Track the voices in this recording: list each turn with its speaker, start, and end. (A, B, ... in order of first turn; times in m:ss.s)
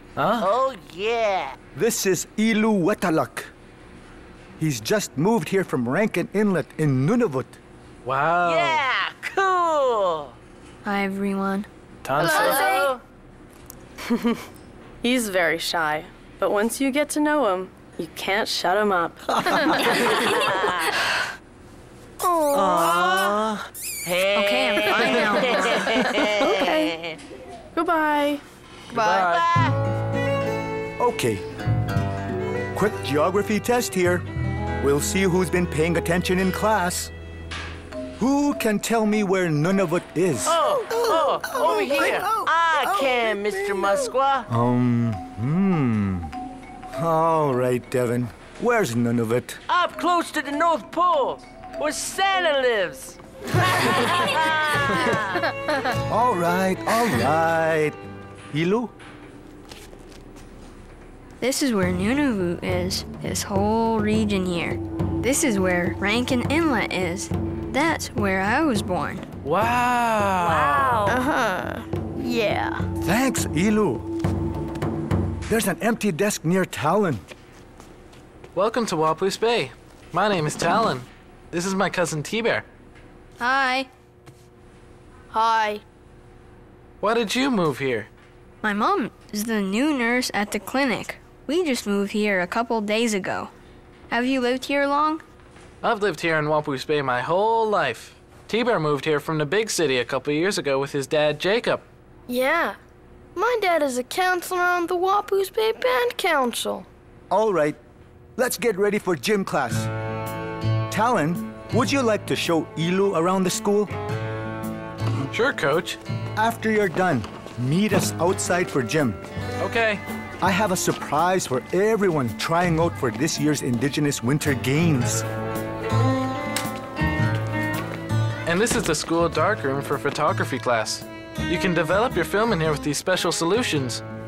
0:00.2-0:00.5 A
0:00.4-0:01.6 B
0:01.7-0:03.5 C
0:04.6-0:07.6 C
0:08.0-0:08.8 A
0:08.4-0:10.3 B
0:10.8-0:11.7 D
0:12.0-0:12.6 A
0:12.2-0:12.9 E
0:12.2-0:13.0 B
0:14.1-0:14.4 F
0:15.0-0:20.0 F
0:20.0-0:20.9 D
0:20.3-0:20.7 B
0:22.2-0:23.3 E
0:22.6-0:23.5 B
0:24.0-0:27.2 B
0:24.3-0:26.9 D
0:27.7-0:28.4 F
0:28.9-0:29.3 D
0:28.9-0:29.4 A
0:28.9-0:29.8 B
0:31.0-0:31.4 C
0:32.7-0:34.2 C
0:34.8-0:37.1 C
0:38.2-0:46.3 C
0:40.4-0:44.5 B
0:47.0-0:49.6 C
0:49.7-0:55.4 B
0:56.1-0:58.0 C
0:58.5-0:58.9 C
1:01.4-1:09.2 D
1:09.4-1:11.2 A
1:10.4-1:11.2 B
1:11.1-1:12.8 E
1:13.0-1:14.1 C
1:15.5-1:17.2 C
1:18.5-1:22.6 A
1:23.4-1:23.9 D
1:25.3-1:25.8 E
1:27.0-1:28.1 A
1:28.6-1:33.5 D
1:34.1-1:35.2 D
1:35.8-1:41.8 A
1:42.3-1:42.8 E
1:43.3-1:46.9 E
1:47.3-1:47.8 C
1:48.4-1:49.9 C
1:50.9-1:53.9 C
1:55.3-1:56.0 A
1:56.4-1:59.2 C
1:59.6-2:00.0 A
2:00.4-2:05.2 C
2:08.4-2:14.0 A